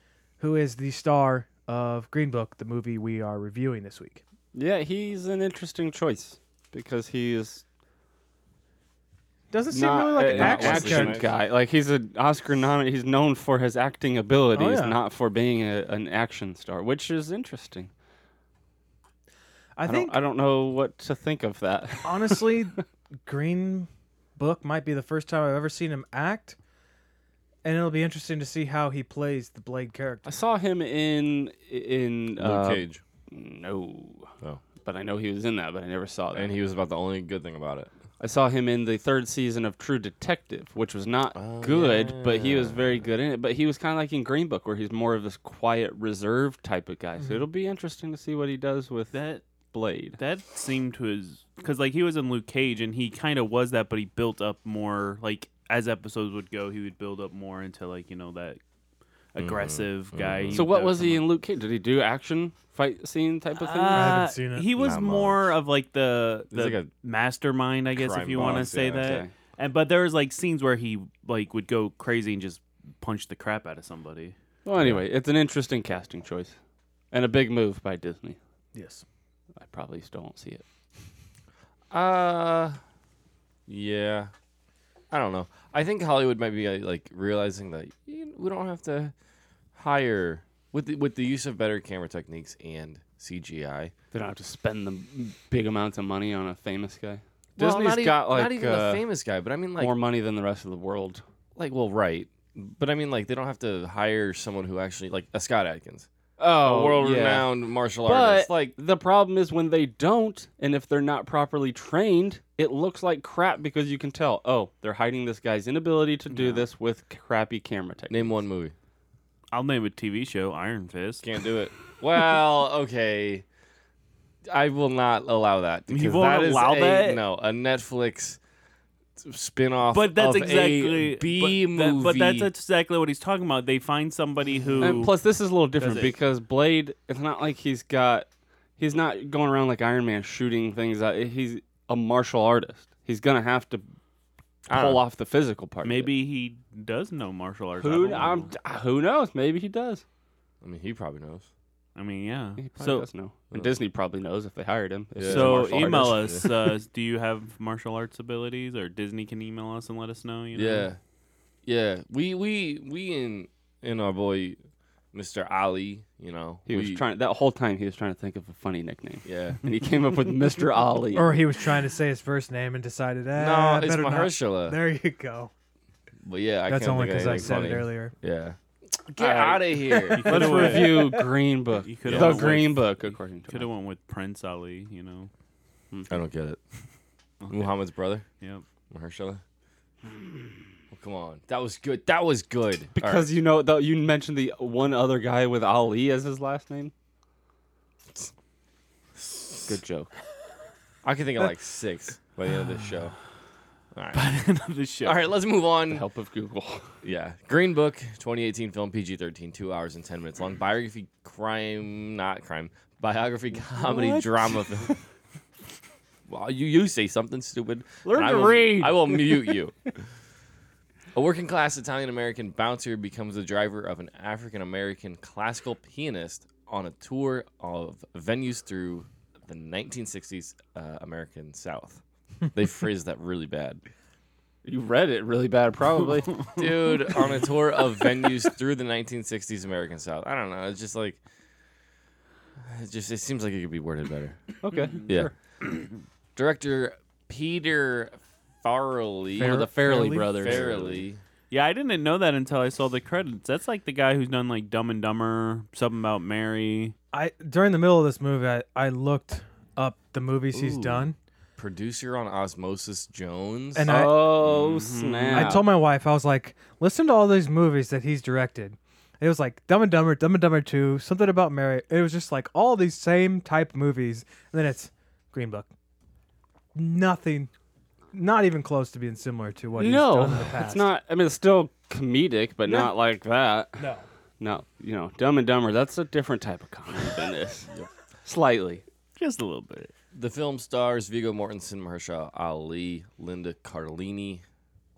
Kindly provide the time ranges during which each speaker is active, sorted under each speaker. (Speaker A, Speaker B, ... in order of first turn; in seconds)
Speaker A: 0.4-4.2, 9.5-11.2, 14.6-15.0, 19.8-20.1, 22.0-26.6, 27.6-30.3, 63.9-64.7, 78.8-79.0, 171.1-175.5, 176.7-178.1, 249.4-250.3, 257.1-261.1, 263.8-264.3, 265.3-275.7, 276.8-277.5, 278.1-280.9, 282.6-282.9, 283.8-284.1
Speaker B: 4.5-7.6, 9.7-17.9, 19.9-22.8, 30.3-34.3, 34.8-36.5, 38.2-49.2, 49.7-50.2, 60.5-64.3, 74.7-76.6, 77.1-78.4, 79.6-80.6, 94.1-99.0, 99.8-101.2, 106.4-107.5, 108.0-118.3, 134.8-138.3, 138.8-143.8, 144.7-146.1, 147.8-150.0, 152.6-156.4, 166.7-171.4, 179.2-183.7, 193.0-196.9, 199.7-200.1, 205.9-206.9, 218.1-219.6, 234.7-236.4, 244.6-245.3, 249.4-251.0, 263.9-265.7, 279.8-283.9, 284.4-287.7, 288.2-288.8
Speaker C: 10.2-11.3, 32.4-33.0, 36.3-37.9, 41.4-43.1, 59.4-60.7, 64.8-65.6, 66.5-66.9, 67.9-69.3, 74.8-75.0, 81.9-82.8, 83.7-84.3, 85.1-89.1, 89.8-93.9, 97.6-99.9, 101.6-108.7, 118.1-118.7, 121.2-123.5, 124.5-128.4, 129.2-132.5, 144.7-145.0, 150.6-151.5, 155.2-156.5, 160.5-161.0, 161.7-164.6, 165.1-167.0, 169.2-169.6, 173.4-174.8, 176.2-180.8, 182.1-182.6, 186.1-186.6, 187.5-188.2, 188.9-189.4, 190.9-193.3, 199.2-199.8, 201.0-203.2, 203.9-204.3, 205.0-206.1, 207.0-214.9, 216.3-219.9, 221.1-232.0, 232.5-233.8, 236.6-241.2, 242.6-244.4, 246.4-249.6, 250.3-251.2, 261.6-264.6, 290.1-294.4
Speaker D: 49.1-49.4, 50.2-58.6, 59.4-61.3, 63.6-74.3, 116.3-116.7, 119.5-121.3, 125.9-127.2, 129.9-135.1, 135.8-136.1, 145.8-148.5, 152.0-153.1, 155.3-160.9, 180.1-181.2, 181.8-185.3, 187.4-187.7, 204.1-205.2, 213.9-214.2, 236.5-237.0, 244.7-245.2, 251.5-256.9, 260.5-261.1, 264.5-265.6, 289.2-289.9